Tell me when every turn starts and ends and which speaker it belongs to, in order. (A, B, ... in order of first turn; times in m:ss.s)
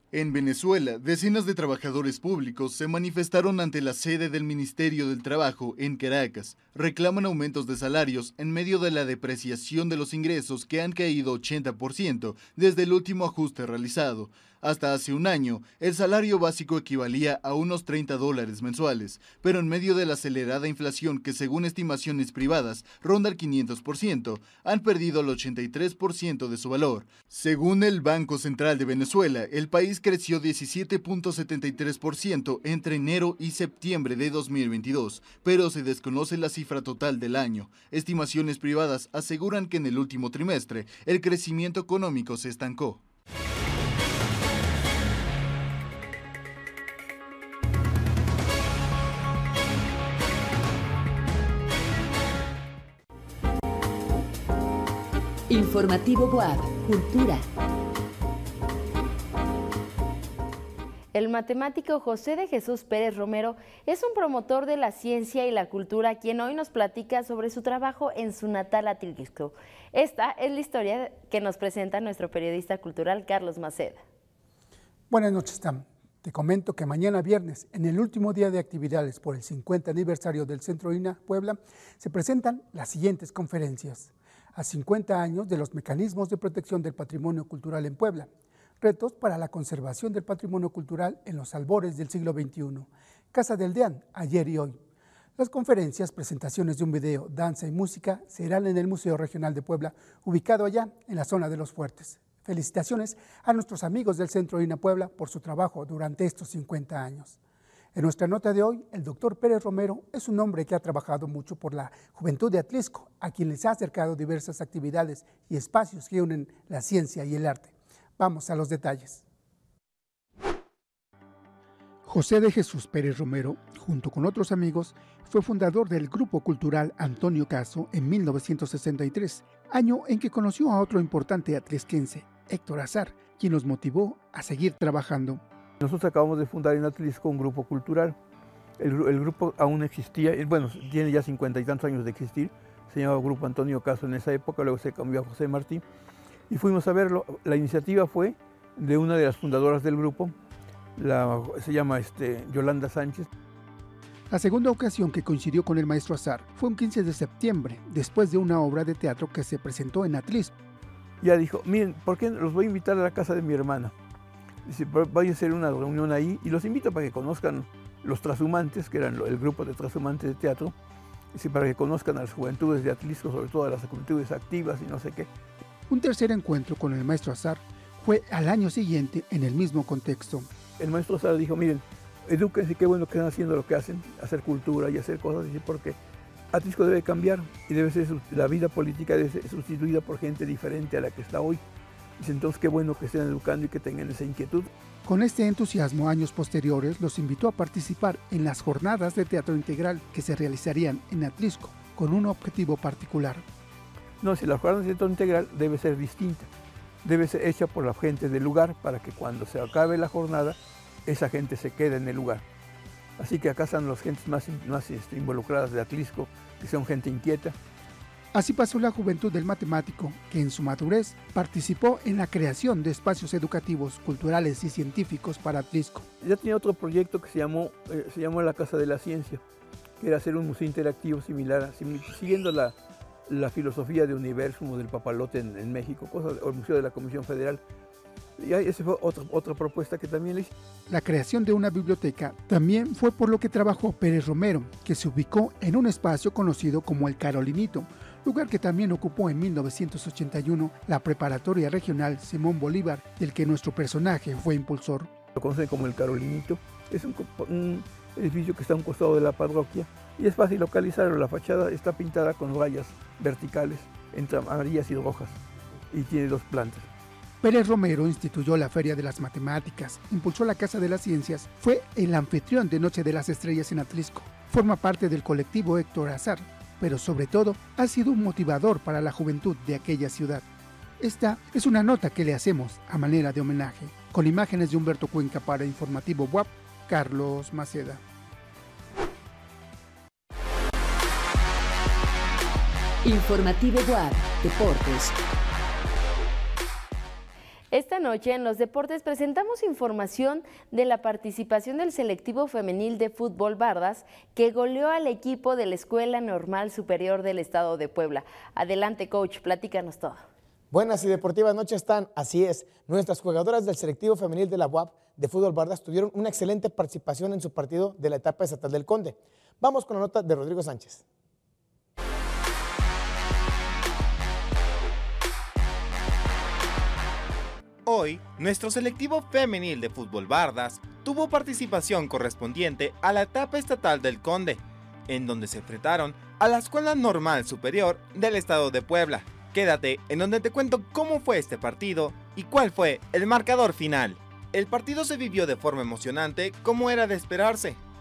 0:00.1-0:43.0 A
0:55.5-0:57.4 B
1:01.1-1:14.0 C
1:15.1-1:28.3 D
1:28.8-1:34.8 D
1:35.4-1:47.4 D
1:47.9-1:59.2 D
2:02.0-2:15.4 D
2:15.8-2:18.2 E
2:18.8-2:25.8 E
2:26.5-2:30.3 E
2:31.0-2:33.3 E
2:34.3-2:40.5 D
2:41.2-2:43.9 E
2:44.6-2:50.7 E
2:51.3-2:55.3 E
2:55.9-3:00.5 D
3:00.8-3:06.0 E
3:06.5-3:11.6 E
3:12.2-3:14.7 E
3:15.0-3:23.4 D
3:24.2-3:26.5 E
3:27.0-3:32.4 E
3:33.2-3:37.5 E
3:38.3-3:46.0 D
3:46.2-3:49.4 E
3:50.0-3:52.7 E
3:53.3-3:57.6 E
3:58.4-4:00.5 E
4:00.9-4:15.1 D
4:15.3-4:25.4 E
4:25.9-4:26.9 E
4:27.4-4:40.4 D
4:41.0-4:48.0 D
4:53.0-4:55.1 B
4:57.7-5:10.2 C
5:10.7-5:21.0 F
5:27.8-5:47.8 G